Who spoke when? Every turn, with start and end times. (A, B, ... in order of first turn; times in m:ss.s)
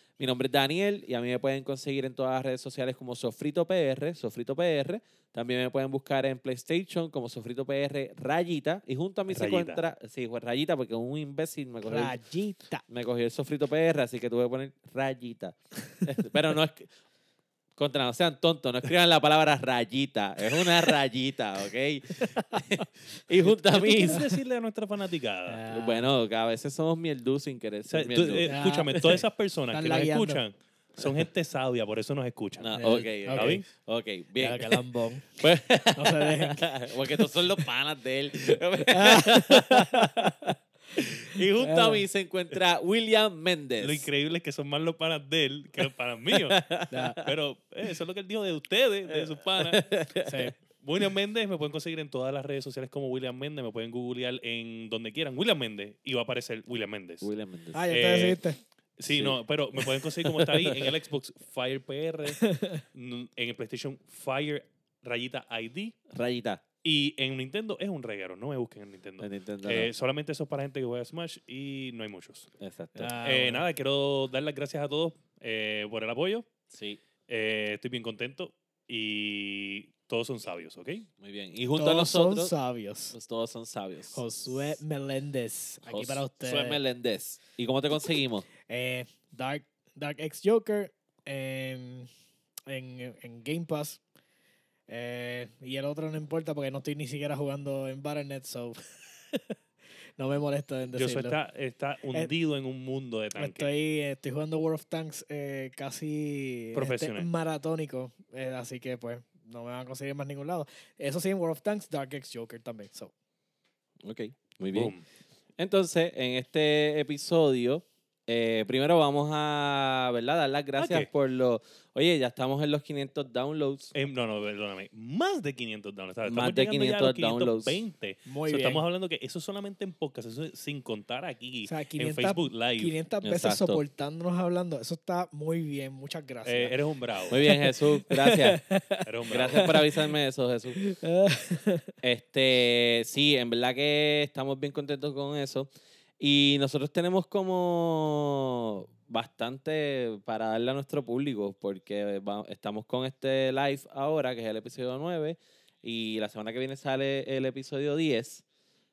0:00.2-0:12.2 A
0:09.3-0:09.8 B
0:11.9-0:12.8 C
0:12.9-0:16.9 A
0:17.8-0:24.3 A
0:22.3-0:22.8 C
0:23.8-0:25.6 B
0:25.5-0:26.1 C
0:25.7-0:29.2 A
0:27.9-0:32.8 B
0:28.5-0:30.4 C
0:32.6-0:34.8 A
0:32.8-0:33.6 C
0:33.3-0:33.6 B
0:34.4-0:35.4 C
0:35.4-0:44.1 A
0:36.0-0:37.3 C
0:38.9-0:40.3 C
0:41.0-0:42.0 C
0:43.8-0:46.6 B
0:46.3-0:47.3 A
0:46.9-0:47.2 C
0:47.2-0:49.8 B
0:49.1-0:50.5 A
0:50.2-0:50.5 C
0:50.8-0:57.3 B
0:57.2-0:57.8 A
0:57.7-0:58.6 C
0:57.9-0:58.4 B
0:59.0-1:06.0 B
0:59.1-1:00.9 A
1:02.4-1:02.8 C
1:06.1-1:06.6 A
1:06.8-1:12.5 B
1:09.2-1:09.9 A
1:12.6-1:13.2 A
1:13.0-1:13.6 C
1:13.2-1:16.5 B
1:16.7-1:17.0 A
1:17.3-1:21.1 B
1:21.2-1:22.5 A
1:21.8-1:23.2 C
1:23.1-1:24.8 A
1:24.1-1:26.8 C
1:25.9-1:28.5 A
1:28.7-1:32.1 C
1:32.7-1:34.0 C
1:34.9-1:38.8 C
1:40.2-1:41.4 C
1:40.9-1:43.7 B
1:43.4-1:53.1 C
1:46.7-1:47.3 B
1:54.0-1:54.9 A
1:54.7-1:55.0 B
1:55.6-2:03.9 A
2:00.8-2:01.1 B
2:03.9-2:13.0 B
2:06.2-2:07.8 A
2:08.3-2:08.8 C
2:11.7-2:16.8 C
2:13.2-2:13.8 A
2:16.4-2:17.4 B
2:17.3-2:18.6 A
2:17.3-2:19.9 C
2:19.1-2:19.8 B
2:19.3-2:20.8 A
2:20.8-2:21.9 C
2:22.0-2:38.4 A